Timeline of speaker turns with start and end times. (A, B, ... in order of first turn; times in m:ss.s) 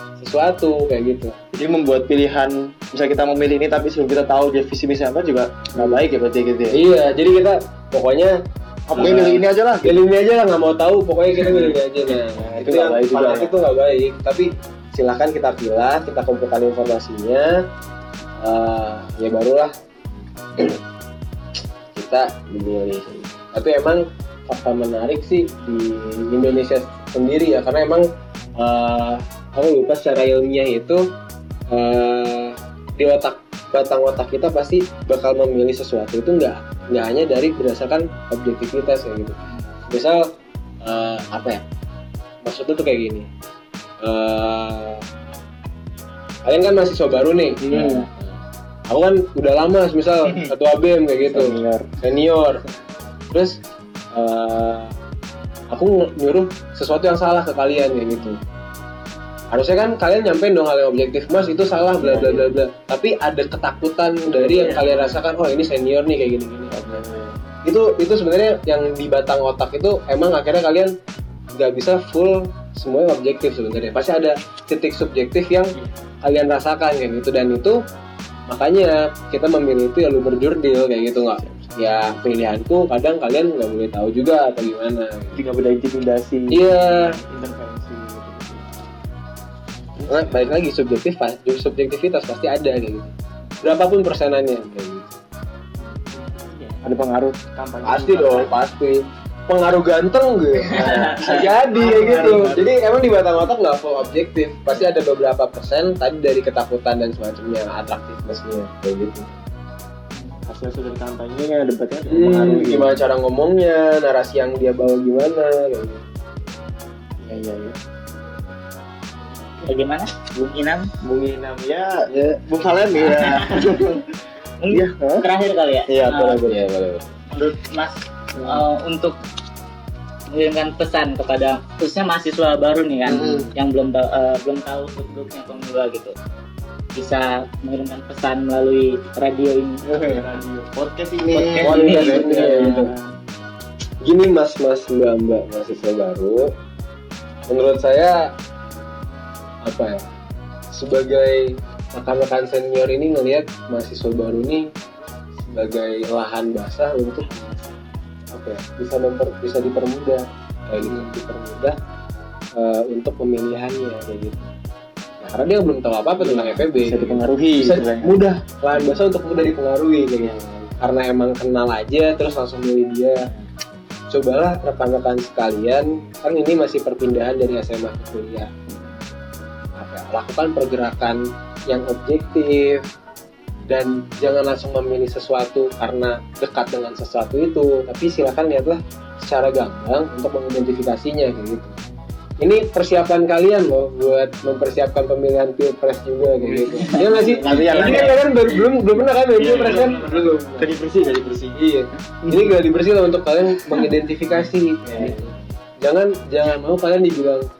0:00.2-0:01.3 A
0:01.5-0:06.8 B
0:06.7-0:08.3 A
0:08.9-0:10.0 B
0:08.9-0:17.6 A
0:12.3-0:13.5 B
0:18.4-0:19.7 A
0:21.9-0:31.1 A
0:31.7-0:39.4 A
0:39.9-0:40.3 A
0:40.8-0:41.6 A
0:42.4-0:43.3 A
0:44.0-0:45.0 A
0:46.4-0:48.2 A
0:47.6-0:48.0 B
0:48.9-0:52.6 A
0:51.3-0:52.0 B
0:53.3-0:53.6 A
0:54.1-0:54.9 A
0:55.7-0:58.4 A
0:59.5-1:07.0 A
1:02.0-1:02.5 B
1:04.3-1:05.2 B
1:06.7-1:07.4 B
1:07.6-1:10.9 A
1:11.5-1:17.8 A
1:18.5-1:25.4 A
1:21.4-1:21.7 B
1:25.3-1:28.7 B
1:26.5-1:27.2 A
1:30.0-1:30.5 B
1:30.1-1:35.1 A
1:36.1-1:36.8 C
1:36.8-1:38.5 B
1:37.8-1:49.3 A
1:40.7-1:42.6 C
1:41.7-1:42.6 B
1:50.4-1:53.0 B
1:52.1-1:56.0 A
1:57.2-1:57.8 B
1:59.6-2:00.9 C
2:01.0-2:04.0 B
2:02.1-2:02.4 A
2:03.2-2:03.7 C
2:04.6-2:06.4 C
2:04.7-2:05.2 B
2:05.9-2:06.6 B
2:06.4-2:07.1 A
2:07.3-2:09.2 C
2:08.4-2:08.6 B
2:10.3-2:16.1 C
2:13.1-2:13.5 B
2:13.2-2:13.5 A
2:16.9-2:19.8 C
2:19.8-2:23.1 B
2:21.3-2:22.9 A
2:21.5-2:22.9 C
2:24.0-2:26.5 A
2:27.5-2:28.3 A
2:29.6-2:30.1 A
2:30.7-2:34.7 A
2:35.4-2:37.4 A
2:38.3-2:41.8 A
2:40.8-2:41.1 B
2:42.5-2:44.4 A
2:45.2-2:53.3 A
2:46.2-2:48.2 B
2:50.2-2:50.7 B
2:54.1-2:58.5 A
2:59.8-3:02.8 A
3:03.7-3:11.8 A
3:12.4-3:20.8 A
3:16.4-3:18.2 B
3:16.8-3:18.2 C
3:19.4-3:21.1 C
3:19.4-3:21.6 B
3:21.5-3:25.3 A
3:22.2-3:22.5 B
3:24.8-3:25.3 B
3:25.8-3:27.5 A